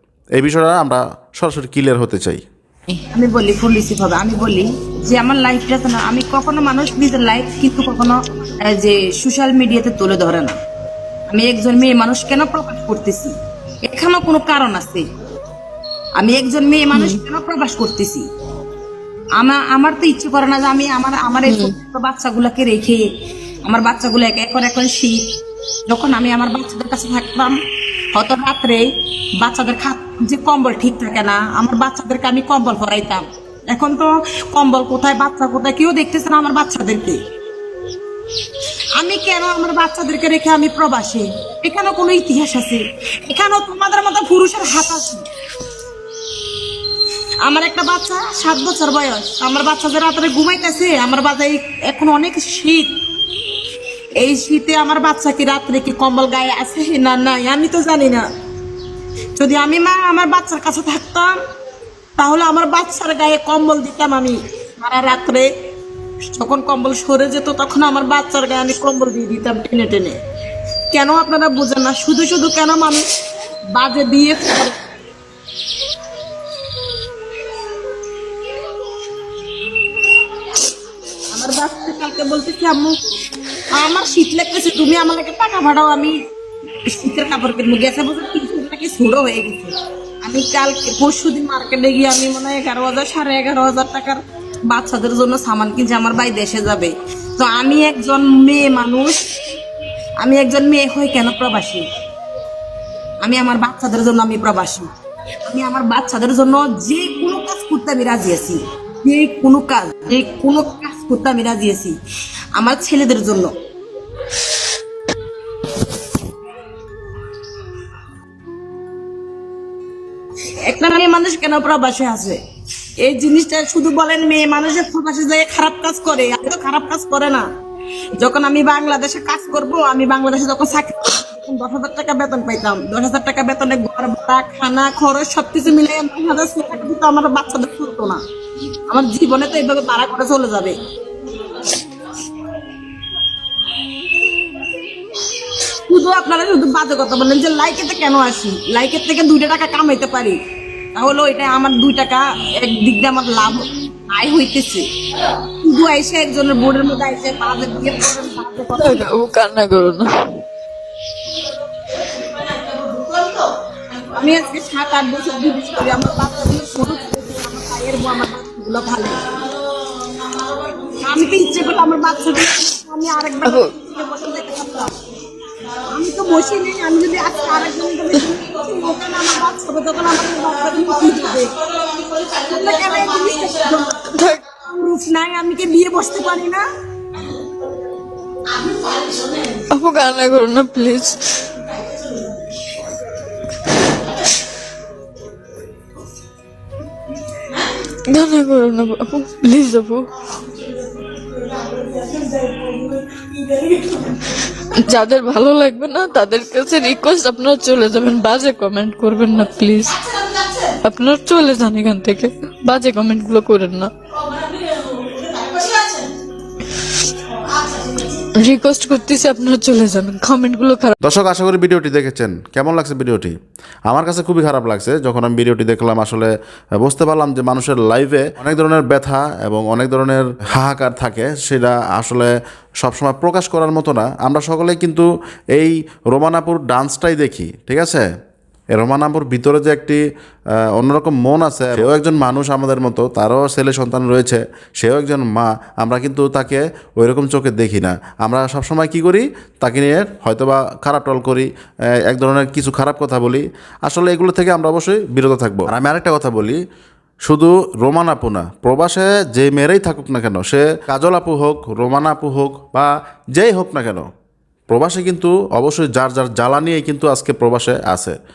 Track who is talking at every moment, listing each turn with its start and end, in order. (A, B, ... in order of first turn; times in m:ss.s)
0:00.4-0:02.4 A
0:03.1-0:10.5 B
0:11.3-0:13.3 B
0:13.9-0:15.0 B
0:16.2-0:18.2 B
0:16.9-0:17.2 C
0:19.4-0:23.0 B
0:21.4-0:21.7 C
0:23.6-0:25.2 B
0:25.9-0:27.6 B
0:28.1-0:28.8 B
0:29.4-0:37.2 B
0:39.0-0:45.2 B
0:47.4-0:52.9 B
0:54.2-0:58.2 B
0:59.4-1:01.3 B
1:02.2-1:05.5 B
1:06.3-1:10.2 B
1:10.9-1:13.0 B
1:13.7-1:14.8 B
1:21.3-1:22.9 B
1:23.7-1:26.2 B
1:26.9-1:39.2 B
1:40.2-1:41.8 B
1:43.2-1:44.9 B
1:45.5-1:52.0 B
1:52.6-1:53.5 B
2:00.7-2:02.4 B
2:03.0-2:07.4 B
2:08.2-2:18.2 B
2:18.9-2:20.7 B
2:25.8-2:30.4 B
2:31.0-2:34.8 B
2:35.6-2:39.1 B
2:38.8-2:40.4 C
2:44.1-2:49.3 B
2:51.0-2:54.9 B
2:55.8-3:01.6 B
3:02.2-3:06.6 B
3:04.1-3:04.4 C
3:09.7-3:11.6 C
3:18.0-3:20.1 C
3:21.6-3:24.1 B
3:24.6-3:30.1 C
3:30.6-3:33.9 C
3:35.5-3:35.8 C
3:38.1-3:40.9 C
3:41.0-3:43.3 A
3:43.9-3:58.0 A
3:58.7-4:00.0 A
4:00.7-4:16.6 A
4:17.3-4:24.1 A
4:24.7-4:28.2 A